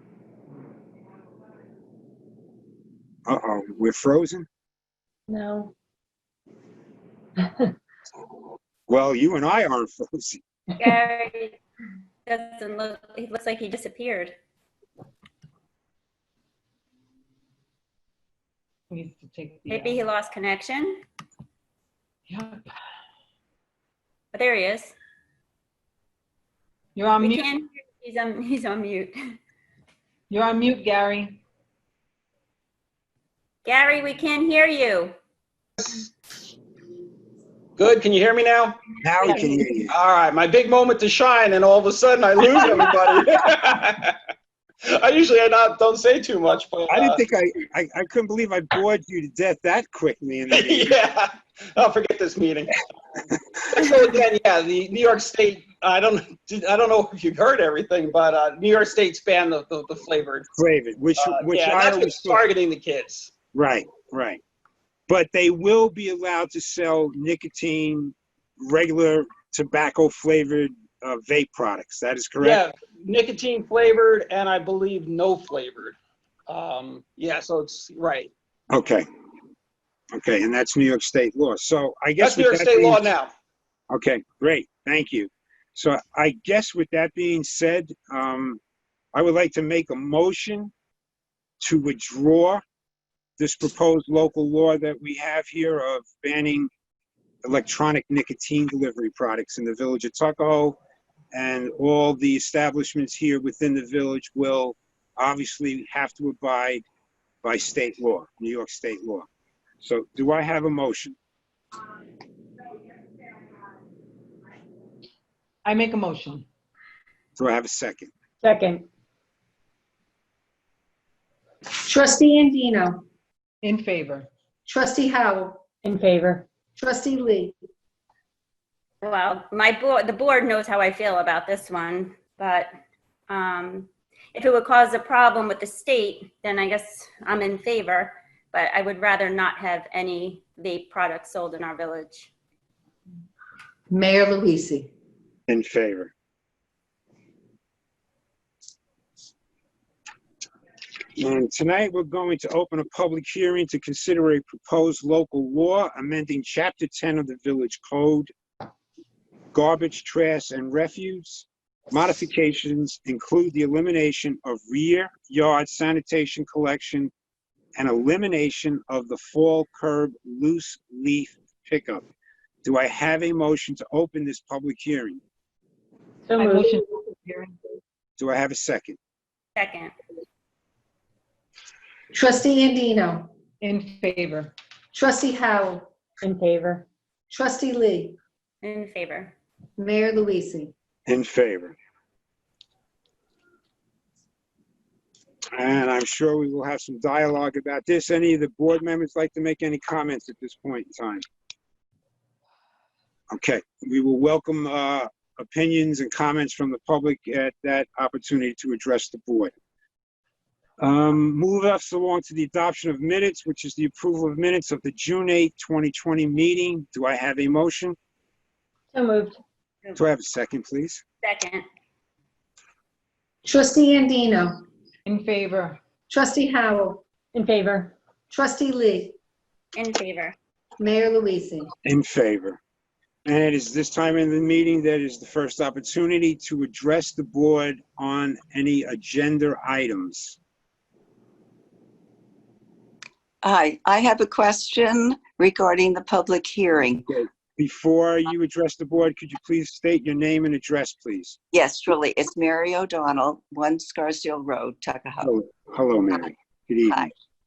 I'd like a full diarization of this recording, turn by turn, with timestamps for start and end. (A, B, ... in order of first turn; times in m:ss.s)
0:03.2-0:04.5 A
0:05.3-0:05.7 B
0:07.4-0:07.7 B
0:08.9-0:10.4 A
0:10.8-0:11.6 C
0:12.2-0:14.4 C
0:18.9-0:20.0 D
0:19.7-0:21.0 C
0:22.3-0:22.6 D
0:24.3-0:24.9 C
0:27.0-0:27.5 D
0:27.2-0:29.4 C
0:30.3-0:31.4 D
0:33.6-0:35.1 C
0:35.8-0:36.1 E
0:37.8-0:38.8 E
0:39.0-0:40.0 A
0:39.9-0:44.2 E
0:44.8-0:47.2 E
0:46.9-0:50.9 A
0:50.5-0:52.8 E
0:53.7-1:00.5 E
1:00.5-1:02.4 A
1:01.2-1:03.3 E
1:03.5-1:04.4 A
1:05.1-1:12.6 A
1:12.4-1:18.3 E
1:18.7-1:19.0 A
1:20.1-1:23.1 A
1:22.2-1:23.3 E
1:23.9-1:28.6 A
1:29.1-1:30.7 A
1:31.6-1:32.6 A
1:33.4-1:36.7 A
1:37.4-1:40.8 A
1:41.3-1:46.8 A
1:47.4-1:49.3 A
1:49.8-1:51.2 A
1:55.6-1:56.4 D
1:57.4-1:58.1 A
1:58.4-1:58.9 B
2:01.8-2:03.0 F
2:03.6-2:04.3 D
2:04.6-2:05.6 F
2:05.8-2:06.5 B
2:06.8-2:07.5 F
2:09.0-2:12.7 C
2:13.3-2:22.3 C
2:23.9-2:24.9 F
2:25.5-2:26.1 A
2:31.2-2:38.3 A
2:39.5-2:47.1 A
2:47.8-2:52.0 A
2:52.6-2:55.2 A
2:56.2-2:56.8 B
2:56.4-2:57.6 D
2:58.2-2:59.0 A
2:59.6-2:59.9 C
3:02.1-3:03.3 F
3:03.6-3:04.5 D
3:04.9-3:05.8 F
3:06.2-3:06.9 B
3:07.3-3:08.2 F
3:08.6-3:09.3 C
3:09.8-3:10.7 F
3:11.1-3:11.8 A
3:15.5-3:21.2 A
3:23.3-3:29.5 A
3:30.8-3:38.0 A
3:38.9-3:39.4 B
3:40.0-3:41.0 A
3:41.2-3:41.6 C
3:43.4-3:44.6 F
3:45.0-3:45.8 D
3:46.1-3:47.0 F
3:47.3-3:47.9 B
3:48.3-3:49.2 F
3:49.8-3:50.4 C
3:50.8-3:51.7 F
3:51.8-3:52.6 A
3:53.2-4:00.4 A
4:03.4-4:07.1 G
4:07.1-4:11.4 A
4:11.5-4:15.3 G
4:15.2-4:17.1 A